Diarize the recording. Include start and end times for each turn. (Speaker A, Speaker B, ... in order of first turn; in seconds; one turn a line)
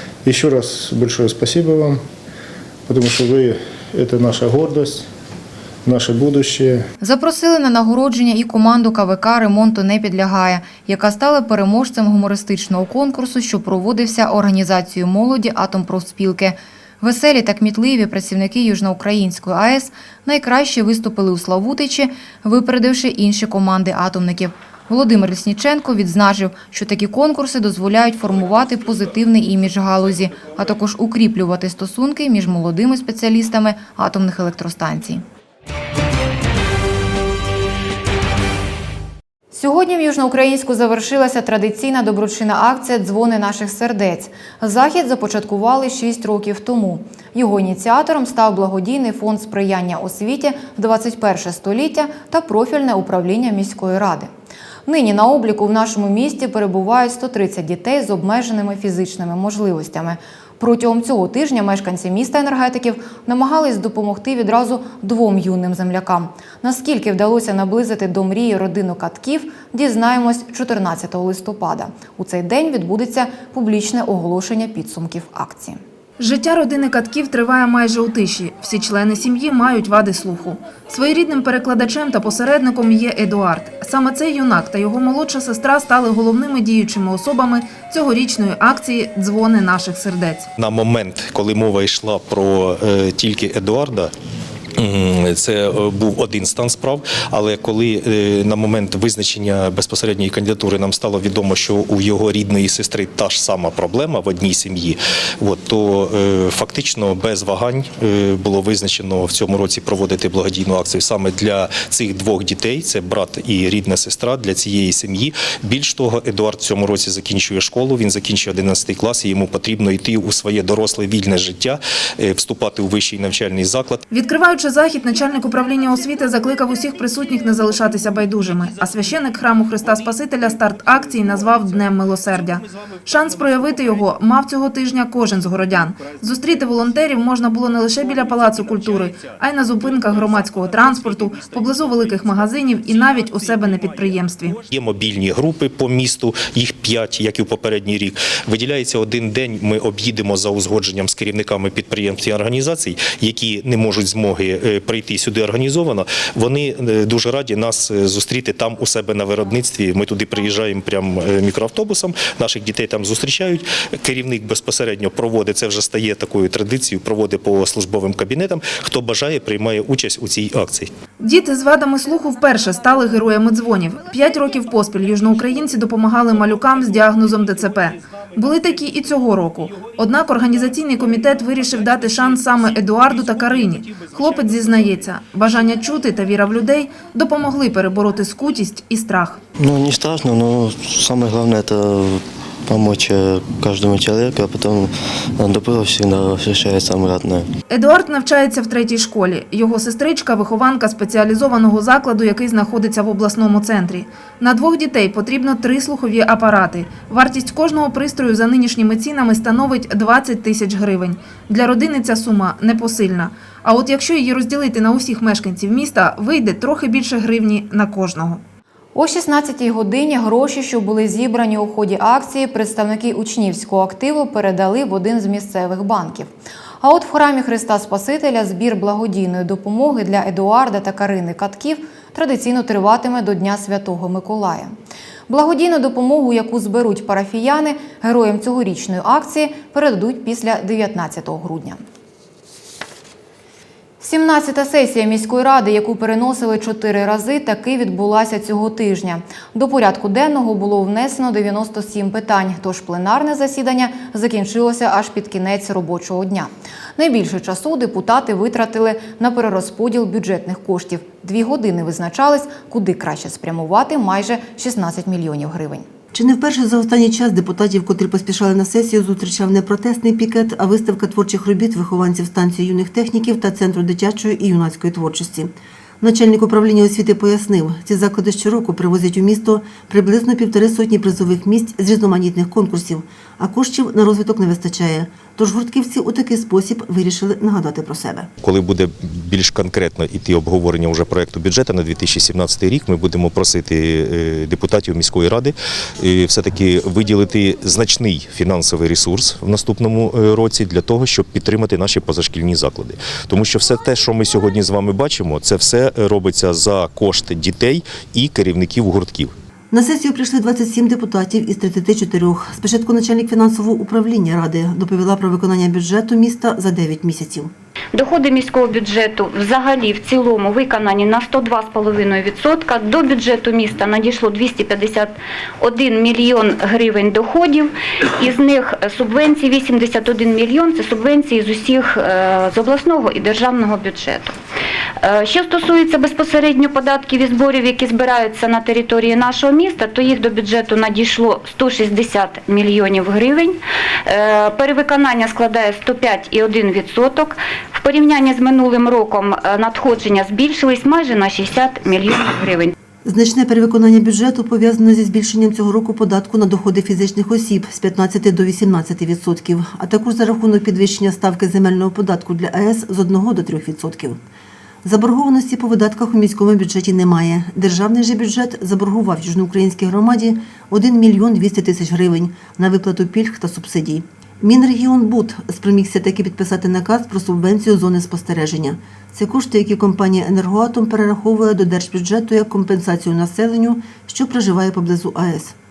Speaker A: 0.2-2.0
Speaker A: 2.9-5.1
Speaker A: 5.8-6.8
Speaker B: 7.0-35.2
Speaker B: 39.5-54.3
Speaker B: 54.9-75.8
Speaker C: 76.2-90.5
Speaker D: 90.6-94.1
Speaker D: 94.8-124.0
Speaker C: 124.1-144.6
Speaker D: 144.7-170.9
Speaker C: 171.2-189.4
Speaker E: 189.6-197.5
Speaker C: 197.7-218.4
Speaker B: 218.9-226.3
Speaker B: 226.8-234.7
Speaker B: 235.3-241.8
Speaker B: 244.0-265.9
Speaker F: 266.1-288.3
Speaker D: 288.4-309.3
Speaker F: 309.7-317.5
Speaker G: 317.9-334.4
Speaker G: 335.0-352.7
Speaker F: 353.0-364.2
Speaker F: 364.8-385.6